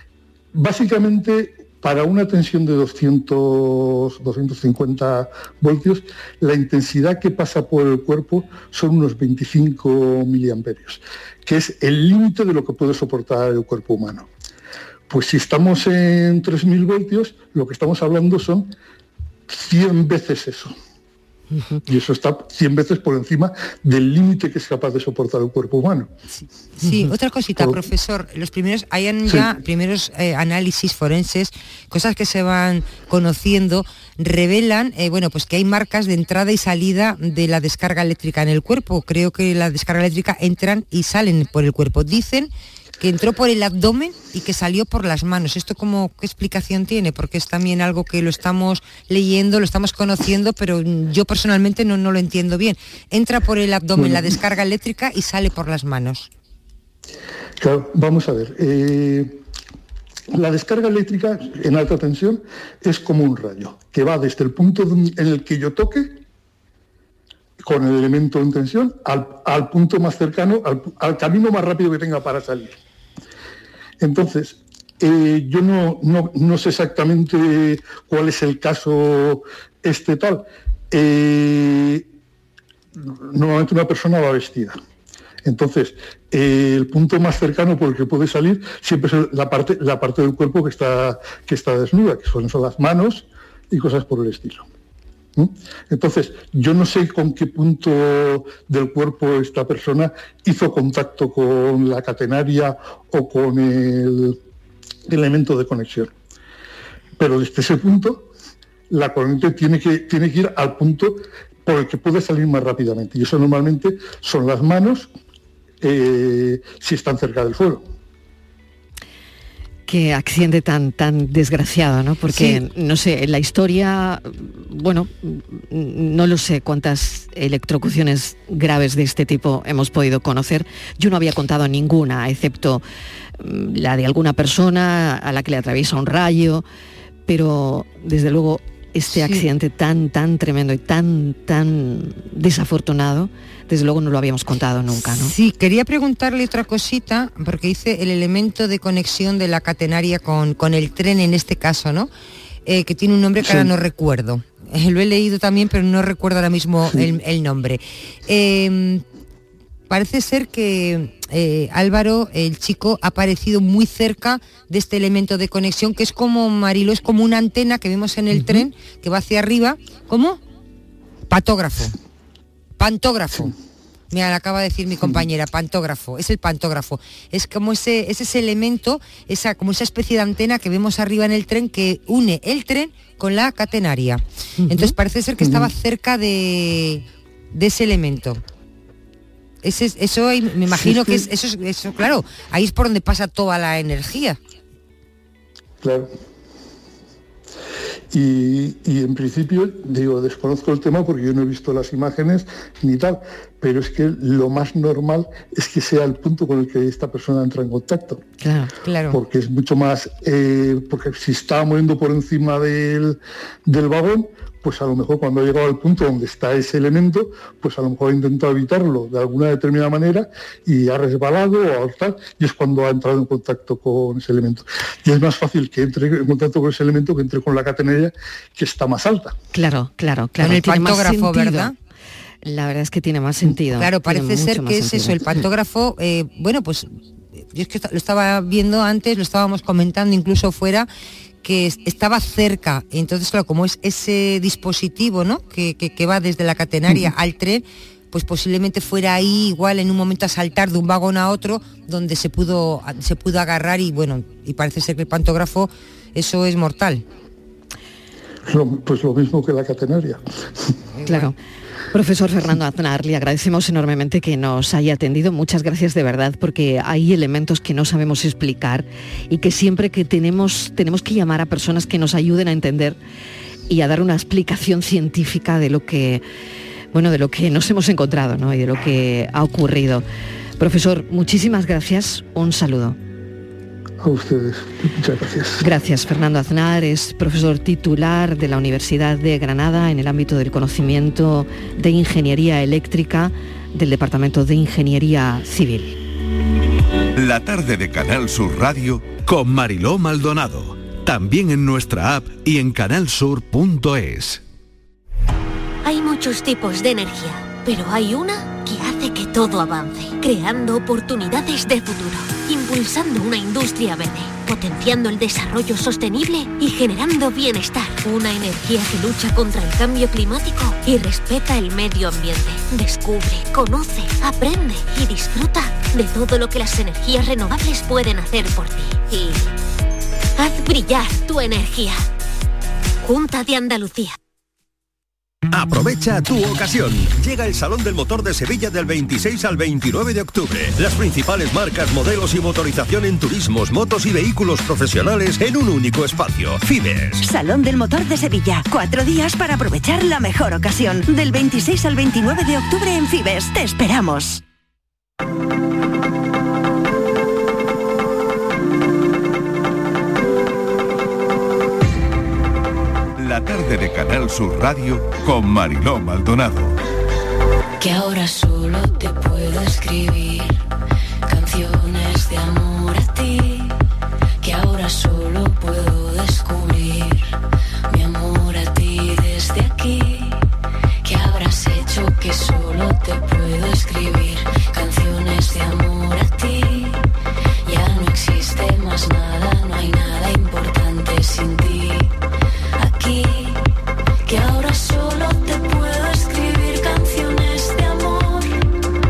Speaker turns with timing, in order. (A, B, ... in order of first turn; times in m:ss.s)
0:00.5-0:14.3 A
0:15.1-0:18.7 A
0:19.5-0:20.7 A
0:21.5-0:21.8 B
0:21.8-0:26.1 A
0:26.3-0:56.3 C
0:26.8-0:27.1 B
0:27.6-0:27.8 A
0:29.2-0:29.5 A
0:54.0-0:54.4 A
0:57.6-0:59.4 A
1:00.3-1:06.2 A
1:07.6-1:12.8 A
1:14.0-1:22.0 A
1:23.0-1:24.8 A
1:25.4-1:34.7 A
1:35.4-1:44.4 A
1:45.1-1:46.1 A
1:47.2-1:48.3 A
1:48.9-1:55.1 A
1:55.8-1:57.8 A
1:59.9-2:12.8 B
2:02.3-2:02.6 A
2:13.4-2:16.6 B
2:17.3-2:25.3 B
2:19.1-2:19.4 C
2:25.0-2:32.1 C
2:32.6-2:39.0 C
2:33.4-2:33.7 A
2:36.9-2:37.1 A
2:39.9-2:50.4 C
2:51.3-2:51.9 C
2:52.8-2:53.5 C
2:54.1-3:08.4 C
3:04.6-3:04.9 B
3:05.4-3:05.7 A
3:09.6-3:14.4 C
3:10.7-3:11.2 A
3:15.8-3:16.1 A
3:18.1-3:28.2 A
3:28.4-3:28.7 B
3:28.8-3:29.2 C
3:29.1-3:49.4 A
3:49.5-3:51.7 B
3:50.4-3:51.7 C
3:52.4-3:55.2 B
3:53.6-4:00.9 C
4:01.4-4:17.0 C
4:18.5-4:20.7 A
4:20.9-4:21.3 C
4:21.0-4:21.4 B
4:21.9-4:33.0 B
4:33.7-4:36.2 B
4:36.9-4:40.0 B
4:40.6-4:43.0 B
4:44.0-4:45.6 A
4:45.6-4:56.0 B
4:57.2-5:04.4 D
5:05.8-5:29.4 E
5:30.4-5:32.0 E
5:33.0-5:34.2 E
5:35.5-5:47.2 F
5:47.2-5:54.4 G
6:03.2-6:06.8 D
6:07.8-6:10.6 H
6:11.2-6:13.8 H
6:14.4-6:17.3 H
6:17.9-6:20.4 H
6:21.0-6:27.0 H
6:27.6-6:32.1 H
6:32.8-6:33.7 H
6:34.2-6:38.5 H